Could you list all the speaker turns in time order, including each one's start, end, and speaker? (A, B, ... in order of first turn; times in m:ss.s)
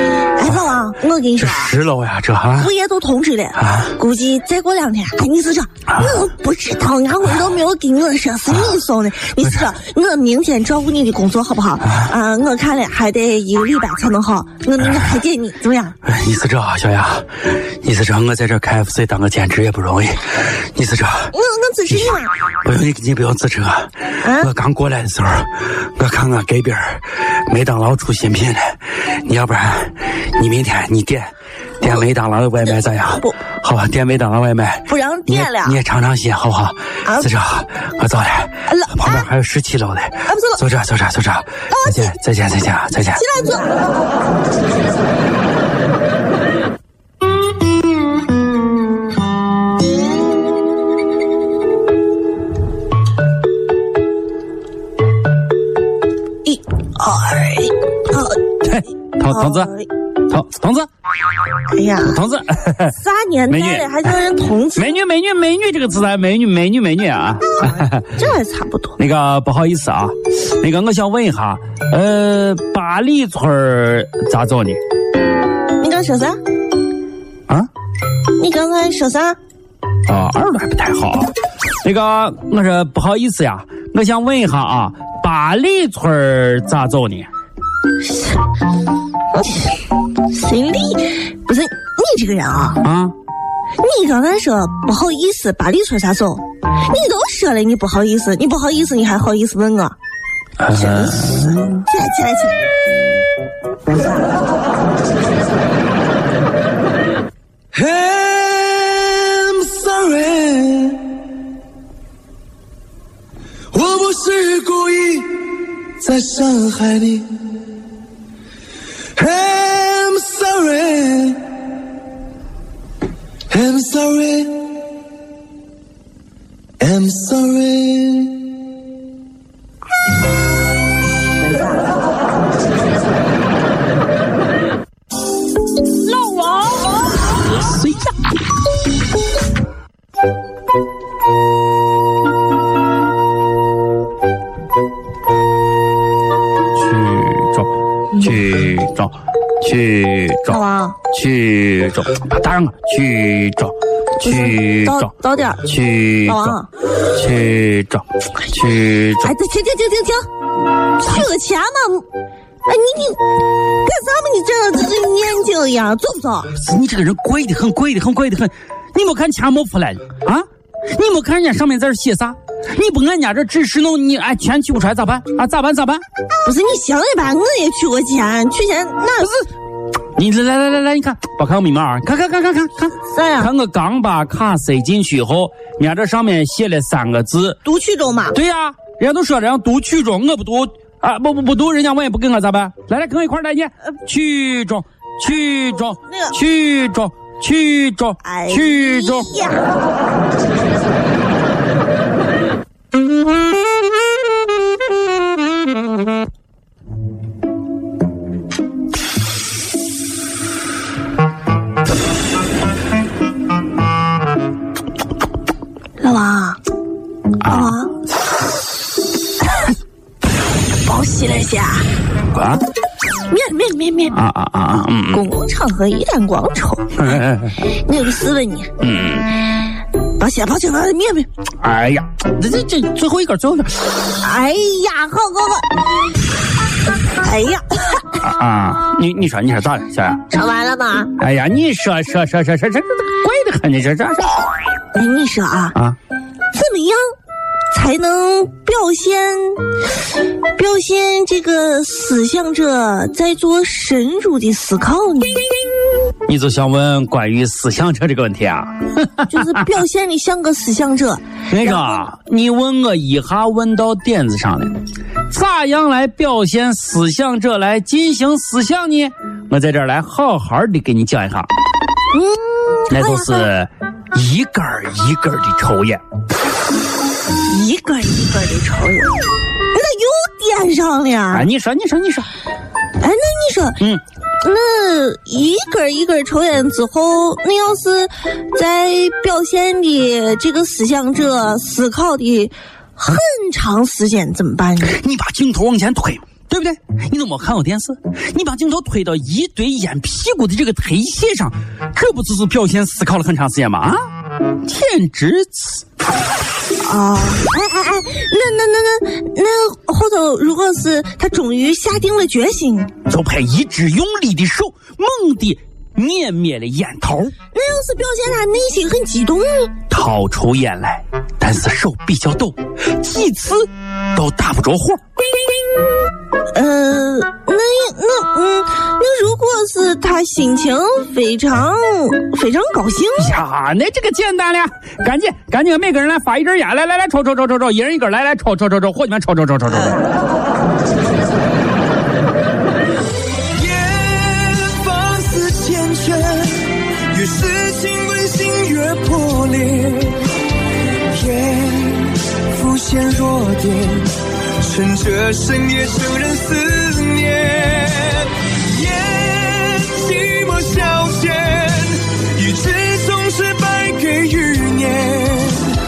0:00.3-0:01.7 A
0:01.4-0:02.7 B
0:02.6-0:16.0 A
0:03.6-0:03.9 B
0:16.0-0:21.3 B
0:21.3-0:22.3 A
0:22.6-0:43.2 B
0:24.2-0:24.5 A
0:32.6-0:33.4 A
0:34.9-0:35.8 A
0:37.0-0:37.3 A
0:38.7-0:39.3 A
0:40.2-0:40.6 A
0:41.7-0:42.1 A
0:43.1-0:43.8 A
0:56.4-0:58.6 A
0:58.7-0:59.7 B
0:59.3-0:59.9 A
1:00.3-1:00.9 B
1:01.7-1:02.2 A
1:02.1-1:02.9 B
1:02.9-1:05.0 A
1:03.5-1:03.9 B
1:04.8-1:07.8 B
1:07.5-1:09.0 A
1:09.0-1:14.8 B
1:15.8-1:16.4 A
1:18.4-1:19.4 A
1:20.0-1:21.3 B
1:21.8-1:27.3 B
1:28.0-1:28.4 A
1:29.3-1:32.8 A
1:32.8-1:33.1 B
1:33.8-1:40.0 A
1:40.6-1:41.6 B
1:40.7-1:42.6 A
1:47.7-1:51.1 C
1:53.7-1:57.4 C
1:59.2-2:01.4 C
2:03.5-2:04.6 C
2:06.8-2:08.5 C
2:16.1-2:16.8 A
2:26.8-2:30.6 B
2:30.5-2:31.0 A
2:31.1-2:33.7 B
2:34.2-2:35.7 A
2:34.3-2:35.1 B
2:35.6-2:36.6 B
2:36.2-2:36.7 A
2:37.1-2:39.3 B
2:39.2-2:40.2 A
2:40.9-2:42.0 A
2:42.6-2:43.2 A
2:43.8-2:46.5 A
2:46.6-2:56.0 B
2:56.4-2:59.5 A
3:00.2-3:07.6 B
3:03.0-3:03.5 A
3:07.6-3:08.4 A
3:08.3-3:19.3 B
3:16.0-3:16.3 A
3:18.2-3:19.7 A
3:36.0-3:36.6 A
3:37.4-3:37.9 A
3:37.4-3:37.7 B
3:40.8-3:41.9 A
3:42.4-3:42.6 B
3:43.3-3:44.2 A
3:44.1-3:45.2 B
3:45.1-3:48.7 A
3:48.8-3:49.3 B
3:50.2-3:51.3 A
3:51.6-3:54.0 B
3:54.0-3:55.8 A
3:57.2-3:58.1 A
3:58.2-4:00.2 B
4:00.3-4:01.1 A
4:01.2-4:04.4 B
4:04.9-4:05.8 A
4:06.5-4:07.0 A
4:07.7-4:09.8 A
4:10.5-4:15.6 A
4:16.3-4:19.2 B
4:19.3-4:22.1 A
4:21.5-4:24.7 B
4:25.3-4:31.5 B
4:32.1-4:33.5 A
4:32.9-4:36.0 B
4:37.4-4:41.5 A
4:41.3-4:42.3 B
4:43.0-4:43.8 A
4:44.4-4:55.0 A
4:54.9-5:04.0 B
5:04.6-5:05.8 B
5:06.8-5:12.9 A
5:13.1-5:17.3 B
5:17.5-5:19.7 A
5:19.9-5:25.0 B
5:26.5-5:33.4 A
5:33.2-5:40.0 B
5:43.5-5:50.3 C
5:51.0-6:05.7 C